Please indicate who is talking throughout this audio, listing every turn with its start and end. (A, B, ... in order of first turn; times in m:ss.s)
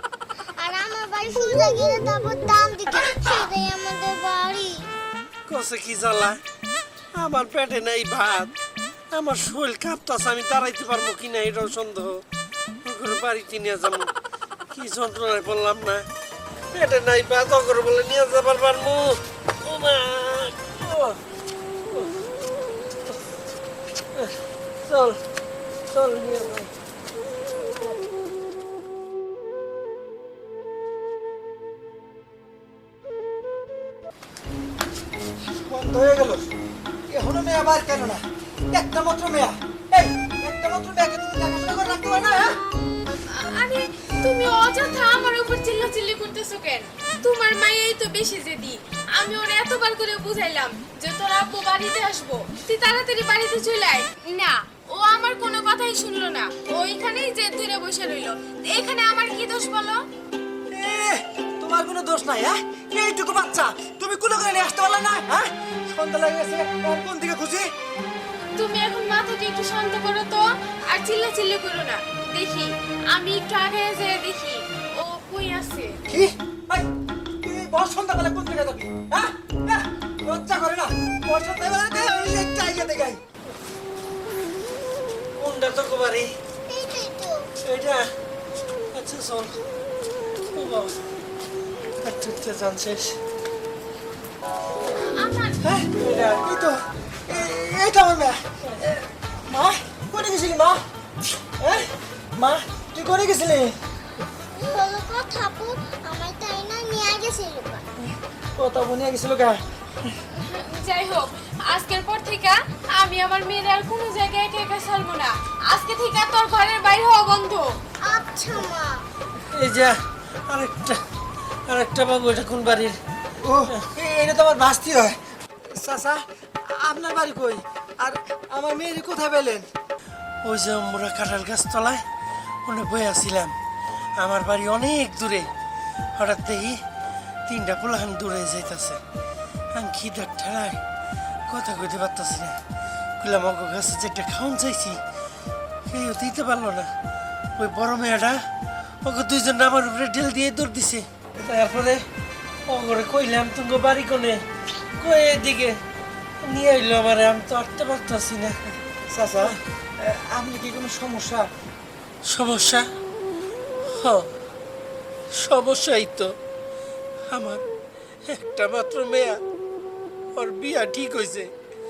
0:00.6-0:04.8 A
0:05.5-0:06.4 B
0:07.2-0:08.5 B
0:09.1-0:12.2 B
0:12.8-0:14.1 B
0:14.7-0:16.0 B
0:16.7-0:21.2 B
0:24.8-0:25.2 B
0:25.9-0:26.7 B
0:35.7-0:36.5 C
0:37.1-0:38.2 C
0:38.7-0:42.6 C
0:43.1-1:00.0 D
1:00.7-1:07.7 C
1:08.5-1:16.0 D
1:16.1-1:16.9 C
1:17.4-1:23.2 C
1:25.4-1:26.3 B
1:26.7-1:27.4 A
1:27.6-1:28.1 B
1:28.9-1:29.6 B
1:30.5-1:31.0 B
1:32.0-1:33.2 B
1:34.9-1:35.6 D
1:35.6-1:36.8 C
1:37.3-1:38.4 C
1:39.5-1:40.8 C
1:41.6-1:43.7 C
1:44.5-1:47.8 A
1:48.6-1:49.6 C
1:50.3-1:57.6 D
1:58.0-1:59.0 A
1:59.5-2:00.0 B
2:00.5-2:01.0 B
2:01.7-2:02.9 B
2:03.4-2:05.2 C
2:05.8-2:09.6 C
2:10.4-2:12.0 B
2:12.6-2:13.5 B
2:14.2-2:15.5 B
2:16.2-2:16.8 B
2:17.5-2:19.0 B
2:19.7-2:20.8 B
2:21.5-2:22.6 B
2:23.2-2:25.0 B
2:25.9-2:26.9 B
2:27.6-2:28.4 B
2:29.0-2:32.0 B
2:32.7-2:34.4 B
2:35.0-2:35.8 B
2:36.4-2:38.6 B
2:39.1-2:41.5 C
2:42.3-2:42.8 B
2:43.9-2:44.3 B
2:45.4-2:46.3 B
2:47.3-2:47.6 B
2:48.2-2:49.4 B
2:50.3-2:51.5 B